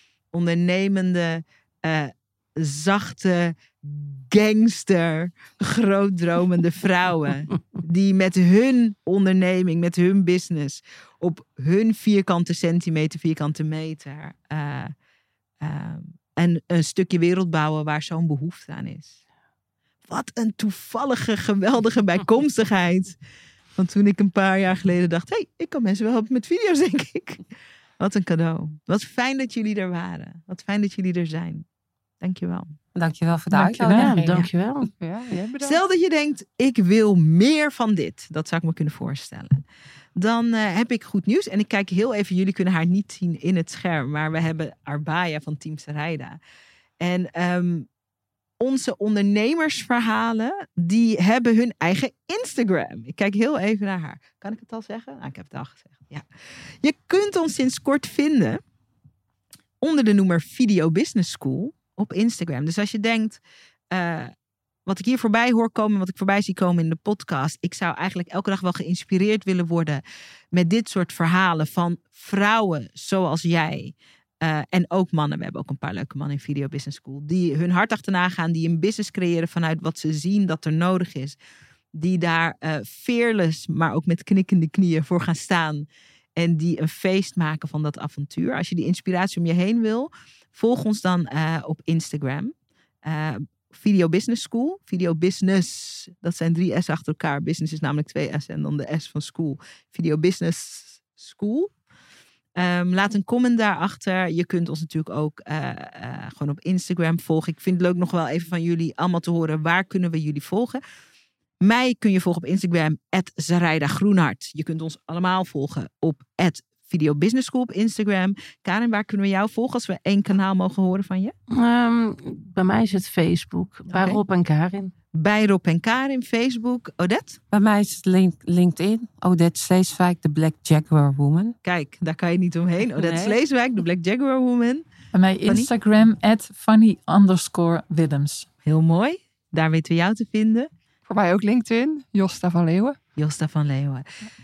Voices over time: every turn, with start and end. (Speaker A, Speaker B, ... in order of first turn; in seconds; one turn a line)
Speaker A: 0.3-14.9
Speaker A: 15.6-19.2
Speaker A: 20.1-23.1
Speaker A: 23.8-27.4
Speaker A: 28.0-31.6
Speaker A: 32.2-32.7
Speaker B: 33.0-34.5
Speaker C: 33.5-34.1
Speaker D: 33.8-34.3
Speaker E: 33.9-34.9
Speaker D: 34.8-35.8
Speaker A: 35.6-39.6
Speaker A: 40.1-46.4
Speaker A: 47.0-47.9
Speaker A: 48.6-56.2
Speaker A: 56.8-58.6
Speaker A: 59.8-63.4
Speaker A: 63.9-64.3
Speaker A: 64.8-70.0
Speaker A: 70.5-81.4
Speaker A: 81.9-101.7
Speaker A: 102.5-110.8
Speaker A: 111.6-121.3
Speaker E: 121.5-124.9
Speaker A: 123.9-124.2
Speaker A: 125.1-127.4
Speaker B: 127.5-131.6
Speaker A: 131.6-134.8
Speaker B: 133.0-133.4
Speaker C: 135.1-138.5
Speaker A: 138.6-140.7
Speaker D: 141.1-143.0
Speaker A: 143.2-144.1